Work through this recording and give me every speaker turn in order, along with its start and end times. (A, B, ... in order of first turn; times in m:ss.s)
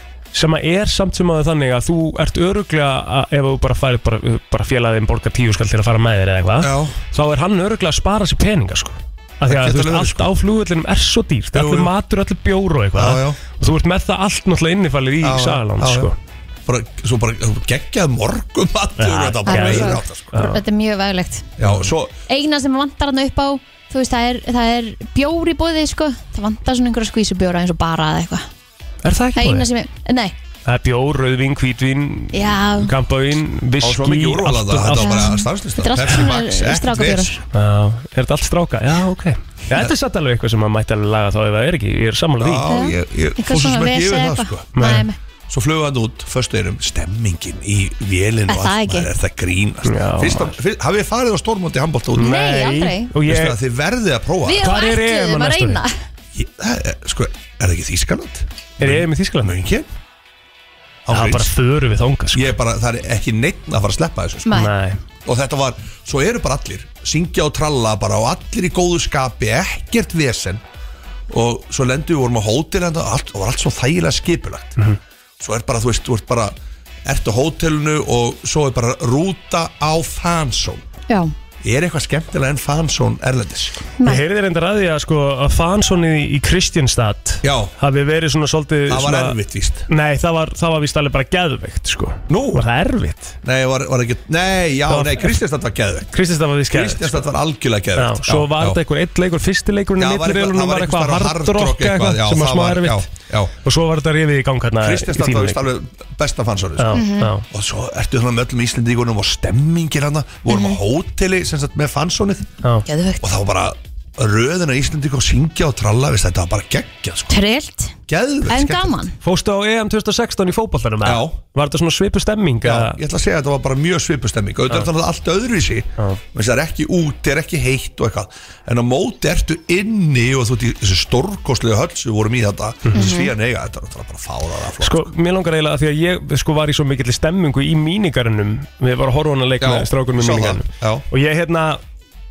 0:00.3-0:16.2 A
0:06.6-0:07.0 B
0:09.4-0:10.2 B
0:11.5-0:11.9 B
0:13.0-0:13.4 B
0:15.2-0:16.1 B
0:16.7-0:20.3 B
0:19.0-0:20.6 A
0:19.4-0:21.5 C
0:21.6-0:22.1 B
0:21.6-0:21.9 A
0:22.3-0:28.4 C
0:29.0-0:29.7 A
0:29.4-0:30.3 C
0:30.6-0:35.4 A
0:32.3-0:32.9 C
0:33.8-0:37.4 B
0:34.9-0:37.4 C
0:37.5-0:42.8 A
0:42.4-0:52.4 B
0:42.7-0:45.2 C
0:44.7-0:45.0 A
0:48.5-0:49.1 C
0:49.8-0:50.6 A
0:52.1-0:53.6 A
0:52.2-0:53.1 C
0:53.3-0:54.7 B
0:54.4-0:55.9 C
0:54.5-0:55.8 A
0:56.3-0:59.9 B
0:58.8-0:59.7 A
1:01.0-1:01.5 B
1:01.1-1:02.6 A
1:02.3-1:04.6 B
1:04.4-1:04.7 C
1:04.5-1:05.0 A
1:05.2-1:10.6 B
1:11.3-1:14.8 B
1:15.4-1:16.6 B
1:17.0-1:20.8 B
1:21.6-1:23.7 B
1:24.0-1:24.2 C
1:24.0-1:33.4 A
1:27.4-1:27.7 B
1:28.9-1:29.9 B
1:32.3-1:32.6 B
1:33.4-1:36.1 B
1:34.9-1:35.3 A
1:36.1-1:37.3 A
1:36.7-1:38.8 B
1:38.0-1:45.7 A
1:40.0-1:43.5 B
1:44.8-1:52.5 B
1:46.8-1:47.4 A
1:46.9-1:47.3 C
1:50.5-1:50.8 C
1:52.9-1:53.2 C
1:53.2-1:57.4 B
1:57.3-1:59.1 C
1:58.1-1:59.0 B
1:59.2-2:03.0 A
2:01.0-2:01.3 B
2:02.6-2:15.1 B
2:12.9-2:13.2 A
2:12.9-2:13.3 C
2:14.8-2:21.8 A
2:19.6-2:21.0 B